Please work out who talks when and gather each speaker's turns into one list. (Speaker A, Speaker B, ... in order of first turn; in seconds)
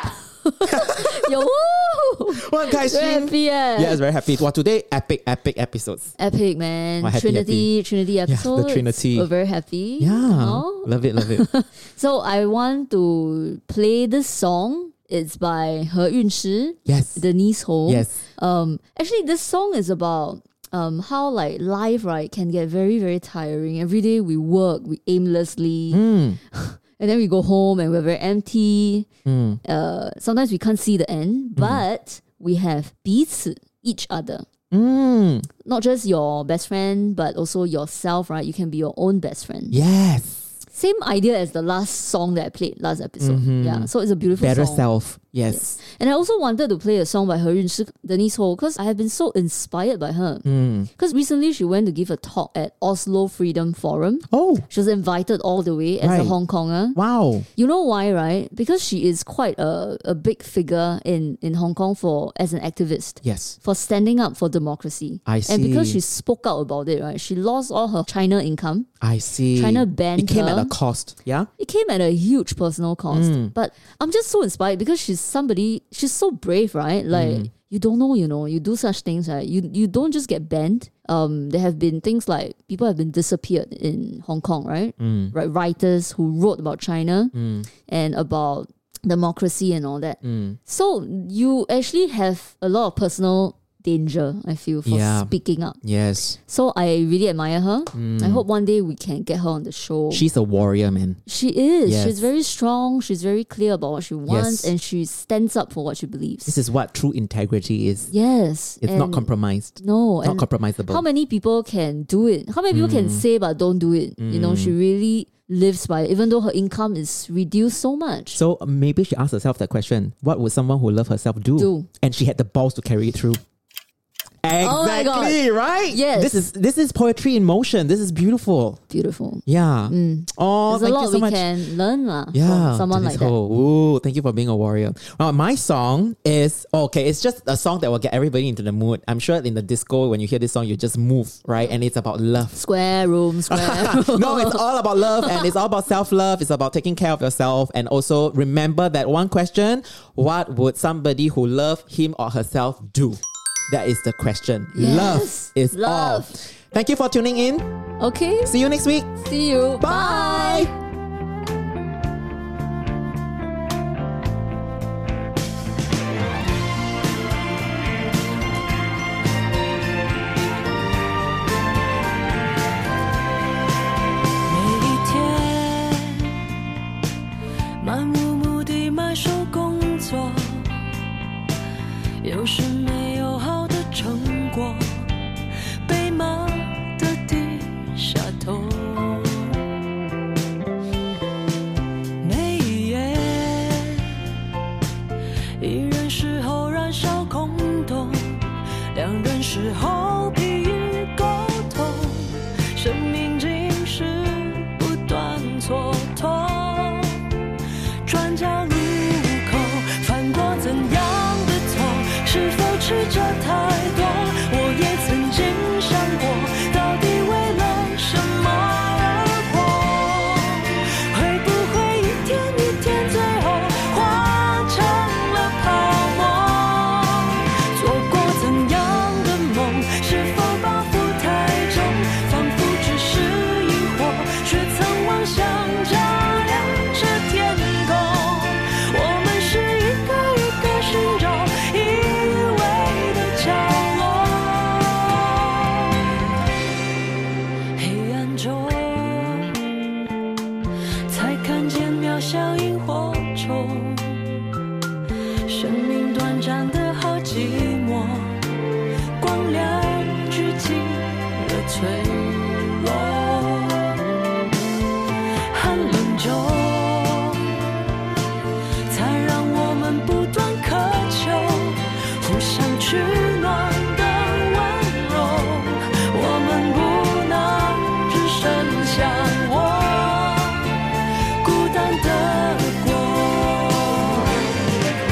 Speaker A: 0.4-4.0, 6.2-29.1, 29.6-34.5, 35.6-39.8, 40.7-44.9, 45.5-57.0, 57.6-68.9, 69.5-70.7, 71.6-95.8, 96.5-100.2, 101.3-106.6, 108.1-109.3, 109.8-118.4, 121.6-121.9, 124.6-126.4, 128.9-133.3, 142.5-145.5, 154.7-156.4, 158.0-158.5, 159.2-160.7
Speaker B: 0.6-1.4, 2.3-6.1, 7.0-7.7, 8.3-9.3, 10.0-11.5, 16.9-17.2, 17.9-18.2, 25.9-26.4, 29.3-29.6, 31.6-31.8, 34.7-35.5, 39.7-40.6, 43.2-45.7, 50.5-50.9, 54.3-54.7, 56.0-56.4, 57.0-57.5, 63.2-63.6, 65.3-66.0, 69.0-71.5, 73.1-73.5, 77.1-77.5, 85.0-85.3, 87.3-87.7, 90.2-90.6, 94.9-96.4, 97.9-98.4, 100.1-101.2, 101.9-102.3, 104.3-104.7, 106.5-108.1, 108.8-111.0, 112.7-113.2, 114.2-114.7, 118.3-123.4, 124.4-128.8, 129.4-131.5, 132.3-142.6, 143.5-157.7, 158.4-159.1, 159.8-160.7
Speaker C: 174.5-176.5, 177.8-180.9, 182.2-189.6, 192.2-194.3, 195.6-207.4, 208.0-246.2, 247.8-249.7, 251.1-254.4, 255.4-258.6, 259.2-264.0, 265.5-267.6, 268.9-280.8, 281.4-284.7